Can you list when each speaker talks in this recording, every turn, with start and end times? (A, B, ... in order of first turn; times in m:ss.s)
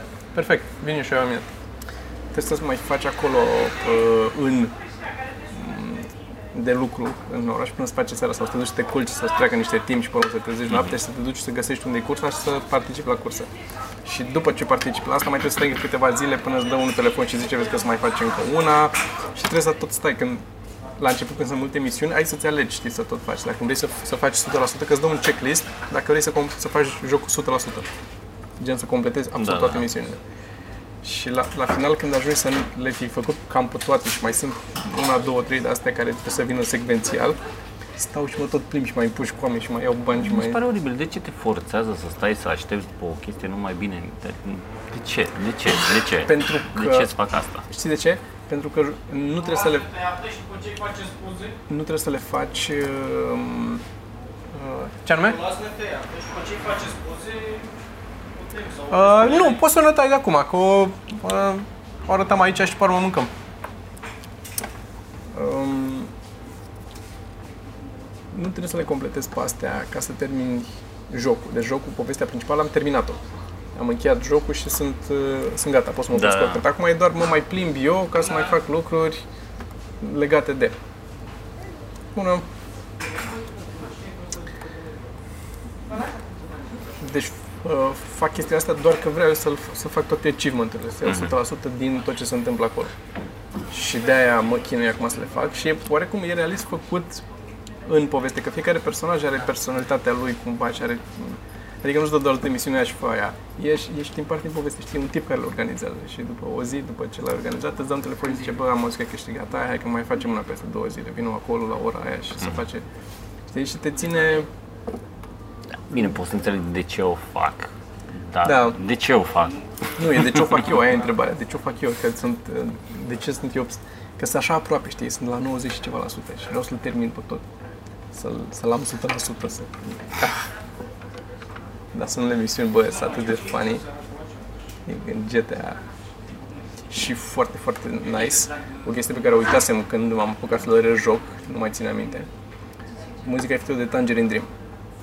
0:00.3-0:01.5 A
0:02.3-0:04.8 A
0:05.5-0:13.5 A
0:14.0-0:20.4 A
0:21.0-0:27.9 A
0:28.6-0:30.2 A
0:29.4-0:29.9 B
0:31.0-0:37.4 A
0:38.0-0:40.6 A
0:40.2-0:47.7 B
0:46.2-0:47.1 A
0:47.7-0:49.9 A
0:49.5-0:51.6 C
0:51.7-0:53.8 A
0:54.5-0:55.4 A
0:55.2-0:57.7 C
0:58.3-0:59.6 C
0:58.9-1:03.3 A
1:05.3-1:06.1 A
1:08.3-1:13.2 A
1:13.8-1:19.2 A
1:16.1-1:16.6 B
1:20.0-1:20.8 A
1:22.2-1:22.5 A
1:23.6-1:24.0 C
1:27.0-1:32.9 A
1:31.1-1:31.3 B
1:33.7-1:37.2 A
1:37.9-1:52.9 A
1:53.5-1:54.5 A
1:55.7-2:00.3 B
1:58.4-1:58.8 A
2:00.0-2:07.4 A
2:08.1-2:10.4 A
2:11.9-2:13.8 A
2:13.3-2:14.3 C
2:14.9-2:15.8 A
2:16.9-2:22.3 A
2:23.2-2:24.5 A